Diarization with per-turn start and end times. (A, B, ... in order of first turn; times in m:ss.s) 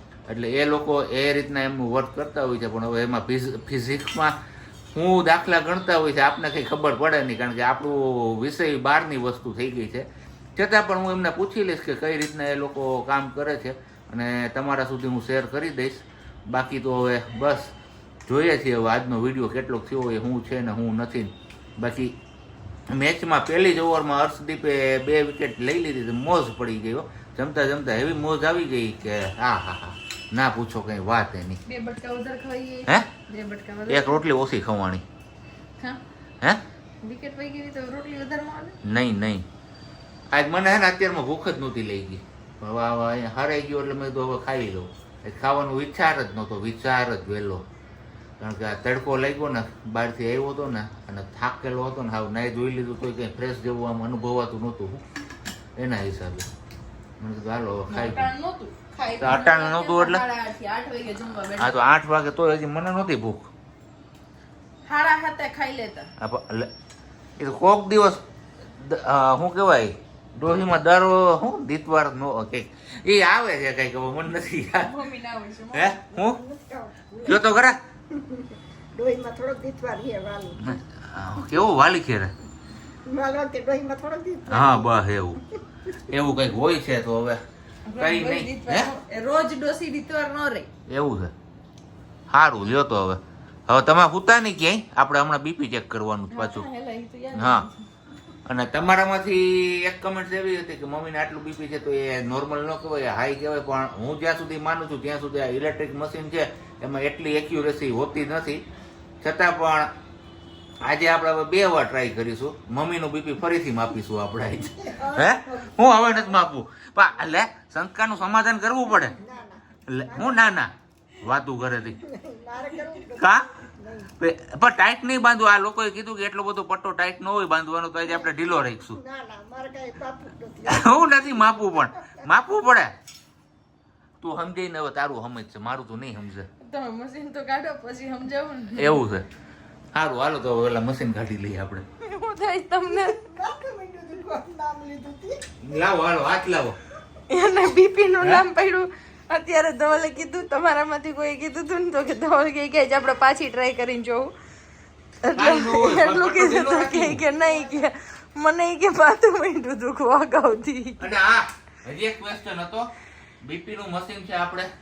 0:00.3-0:04.4 A
0:04.9-0:17.7 A
0:18.3-0:22.2 A
0:22.9-0:31.6 A
0:31.7-0:34.2 B
0:33.9-0:35.0 A
0:37.0-0:38.8 B
0:38.8-0:39.5 A
0:40.3-0:47.7 A
0:48.4-0:55.0 A
0:55.8-0:56.5 A
0:57.2-0:58.3 A
0:57.9-1:01.8 B
0:59.2-1:00.2 A
1:01.5-1:03.5 A
1:04.8-1:06.1 B
1:06.2-1:06.7 A
1:07.4-1:14.9 A
1:14.8-1:16.0 B
1:15.7-1:16.4 A
1:16.1-1:20.8 C
1:17.2-1:17.8 A
1:20.6-1:22.3 A
1:23.1-1:25.0 C
1:24.5-1:25.4 A
1:26.0-1:27.4 A
1:27.9-1:30.7 B
1:28.0-1:28.9 A
1:30.9-1:31.3 A
1:32.3-1:36.7 A
1:36.3-1:37.8 B
1:37.3-1:37.7 A
1:38.4-1:48.6 A
1:49.2-1:49.9 A
1:50.8-1:59.2 A
1:54.7-1:56.4 C
1:59.2-2:00.6 C
1:59.9-2:02.0 A
2:02.0-2:04.1 C
2:03.2-2:03.5 A
2:04.2-2:09.0 A
2:08.1-2:12.3 C
2:10.6-2:12.9 A
2:14.2-2:16.5 A
2:16.6-2:19.1 B
2:18.8-2:19.3 A
2:19.9-2:21.9 A
2:22.0-2:23.3 B
2:22.9-2:25.4 C
2:25.6-2:26.8 A
2:27.3-2:34.3 B
2:35.2-2:41.1 B
2:35.4-2:37.4 A
2:41.0-2:42.9 A
2:43.4-2:44.7 A